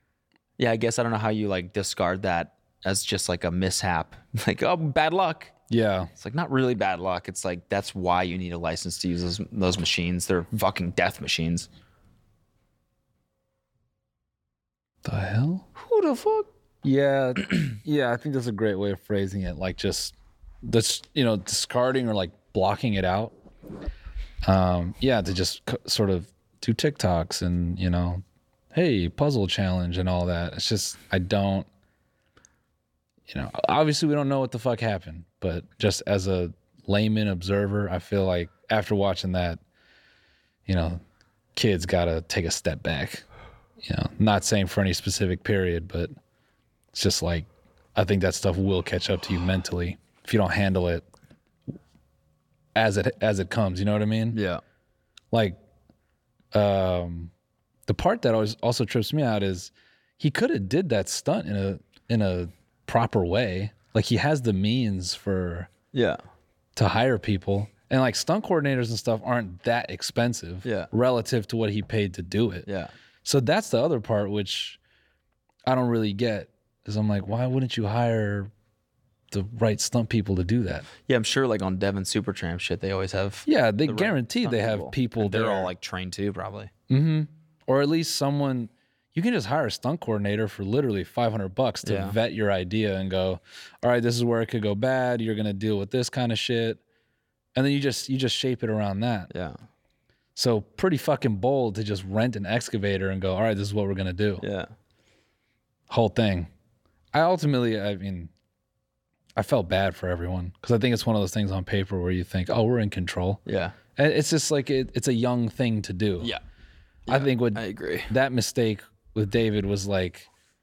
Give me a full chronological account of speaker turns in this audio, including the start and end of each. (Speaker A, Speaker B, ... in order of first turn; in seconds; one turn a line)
Speaker A: 0.6-5.5
Speaker B: 5.7-6.1
Speaker A: 6.2-11.7
Speaker B: 15.0-15.7
Speaker A: 15.8-16.5
Speaker B: 16.8-23.4
Speaker B: 24.4-31.7
Speaker B: 33.3-39.6
Speaker B: 40.7-41.0
Speaker B: 41.5-43.2
Speaker B: 43.8-46.1
Speaker B: 46.9-51.1
Speaker B: 52.8-54.4
Speaker A: 54.3-54.6
Speaker B: 55.3-55.6
Speaker B: 56.5-57.3
Speaker B: 57.9-65.7
Speaker A: 65.9-66.2
Speaker B: 66.8-72.7
Speaker A: 70.6-70.9
Speaker A: 72.7-72.9
Speaker B: 73.2-74.8
Speaker B: 75.7-78.5
Speaker B: 79.3-80.9
Speaker A: 81.1-86.7
Speaker B: 83.5-85.7
Speaker B: 86.9-96.8
Speaker A: 91.8-92.2
Speaker B: 97.5-99.3
Speaker A: 99.3-99.6
Speaker B: 100.4-104.4
Speaker A: 104.4-104.7
Speaker B: 105.9-106.5
Speaker B: 107.1-108.3
Speaker B: 109.4-113.4
Speaker A: 113.5-113.8
Speaker B: 114.0-116.3
Speaker A: 117.1-118.1
Speaker B: 117.1-120.3